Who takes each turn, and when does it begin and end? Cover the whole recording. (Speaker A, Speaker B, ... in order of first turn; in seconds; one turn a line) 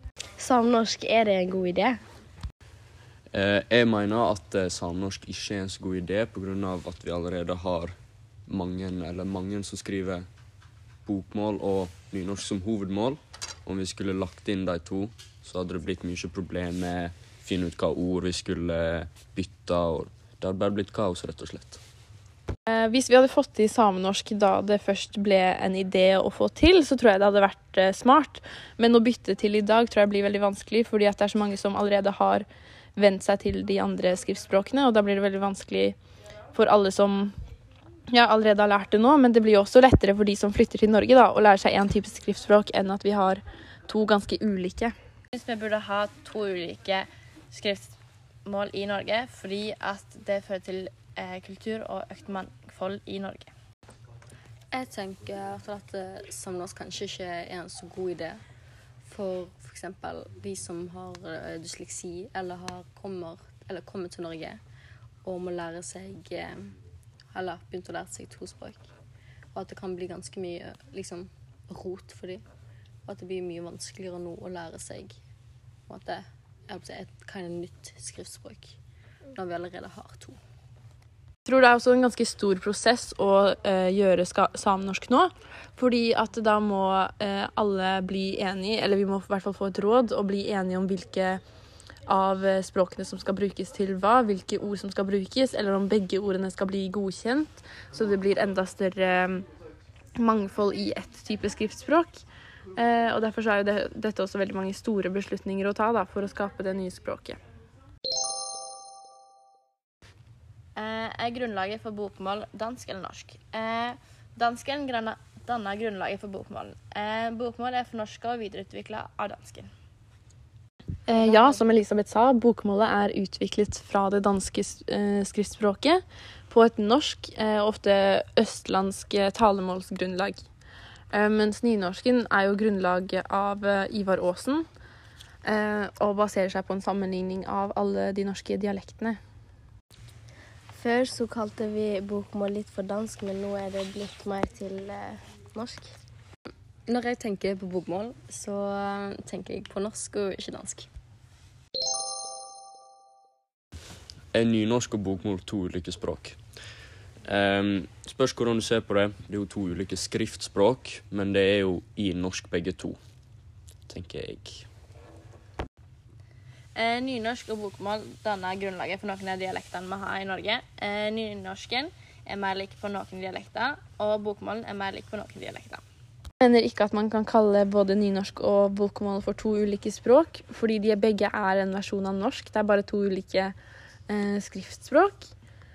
Speaker A: 0.4-2.0
Speaker B: 3.3-8.0
Speaker B: 8.5-10.3
Speaker B: 11.1-21.8
Speaker C: 22.7-32.5
Speaker C: 33.0-36.0
Speaker C: 36.5-37.3
Speaker C: 38.1-44.9
Speaker D: 45.3-53.5
Speaker E: 54.7-58.4
Speaker E: 59.0-64.6
Speaker E: 65.2-66.7
Speaker E: 67.3-68.9
Speaker E: 69.5-72.4
Speaker E: 73.1-75.2
Speaker E: 75.9-78.8
Speaker E: 79.3-80.4
Speaker C: 81.5-91.4
Speaker C: 92.1-99.5
Speaker C: 100.2-102.2
Speaker C: 102.8-107.4
Speaker D: 110.8-119.7
Speaker C: 121.1-130.4
Speaker D: 121.1-121.6
Speaker C: 131.1-134.7
Speaker C: 135.4-139.2
Speaker A: 140.8-145.9
Speaker E: 146.9-150.9
Speaker B: 154.3-156.4
Speaker B: 157.2-163.0
Speaker B: 163.9-164.7
Speaker D: 166.8-175.8
Speaker C: 176.4-183.5
Speaker C: 184.1-185.3